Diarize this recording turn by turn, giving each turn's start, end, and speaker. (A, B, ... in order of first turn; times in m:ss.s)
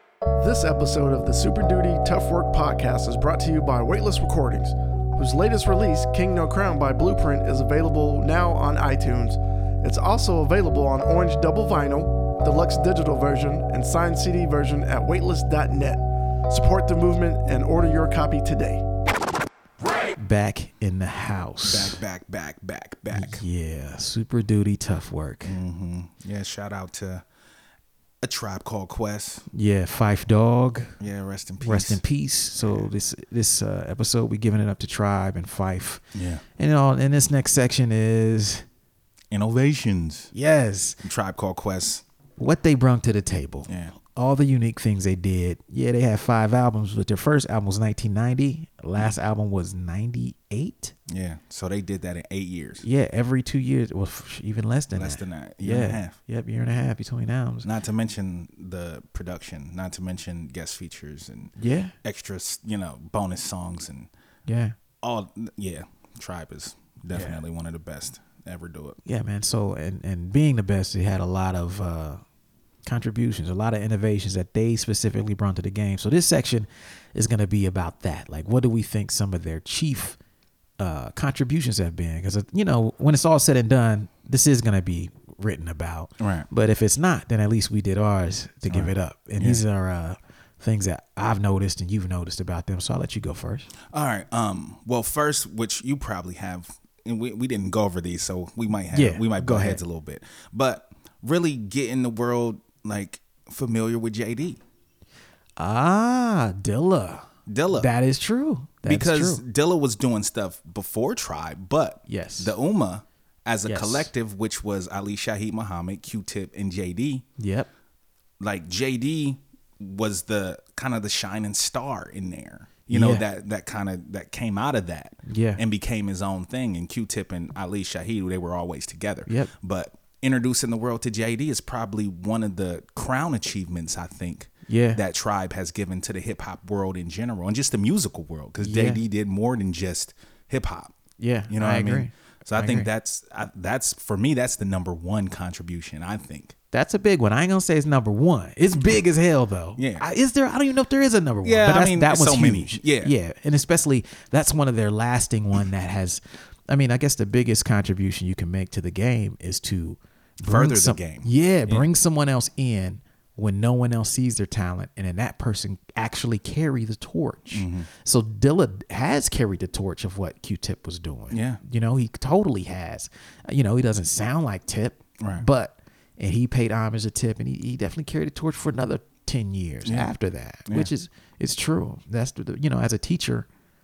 0:00.4-0:18.8 A
0:20.2-0:22.0 B
0:21.6-0:23.4 C
0:23.1-0:25.6 B
0:25.4-0:27.2 C
0:28.2-0:29.4 C
0:29.5-0:31.0 B
0:31.0-0:32.0 C
0:31.6-0:36.0 B
0:36.1-0:36.4 C
0:36.6-0:38.6 B
0:39.3-0:40.3 C
0:40.3-0:41.0 B
0:41.0-0:42.0 C
0:42.4-0:50.9 B
0:43.7-0:43.9 C
0:51.1-0:52.8 C
0:52.8-0:57.7 B
0:54.9-0:56.2 C
0:57.6-1:04.1 C
1:01.6-1:01.9 B
1:04.5-1:04.7 B
1:05.0-1:09.0 C
1:07.1-1:07.4 B
1:09.0-1:12.2 B
1:12.8-1:20.2 B
1:20.8-1:33.7 B
1:26.2-1:26.5 C
1:28.7-1:29.6 C
1:33.9-1:44.6 C
1:38.9-1:39.8 B
1:45.6-1:49.4 B
1:47.5-1:47.9 C
1:48.8-1:57.2 C
1:52.1-1:52.5 B
1:53.6-1:54.1 B
1:57.4-1:57.7 B
1:58.4-2:20.9 C
2:02.9-2:03.2 B
2:05.2-2:05.6 B
2:14.7-2:15.0 B
2:18.6-2:19.0 B
2:21.2-2:22.9 B
2:21.5-2:26.5 C
2:26.7-3:03.5 B
2:29.8-2:30.1 C
2:31.4-2:33.1 C
2:40.4-2:41.8 C
2:47.5-2:47.9 C
2:51.3-2:51.6 C
2:59.8-3:00.1 C
3:00.6-3:00.9 C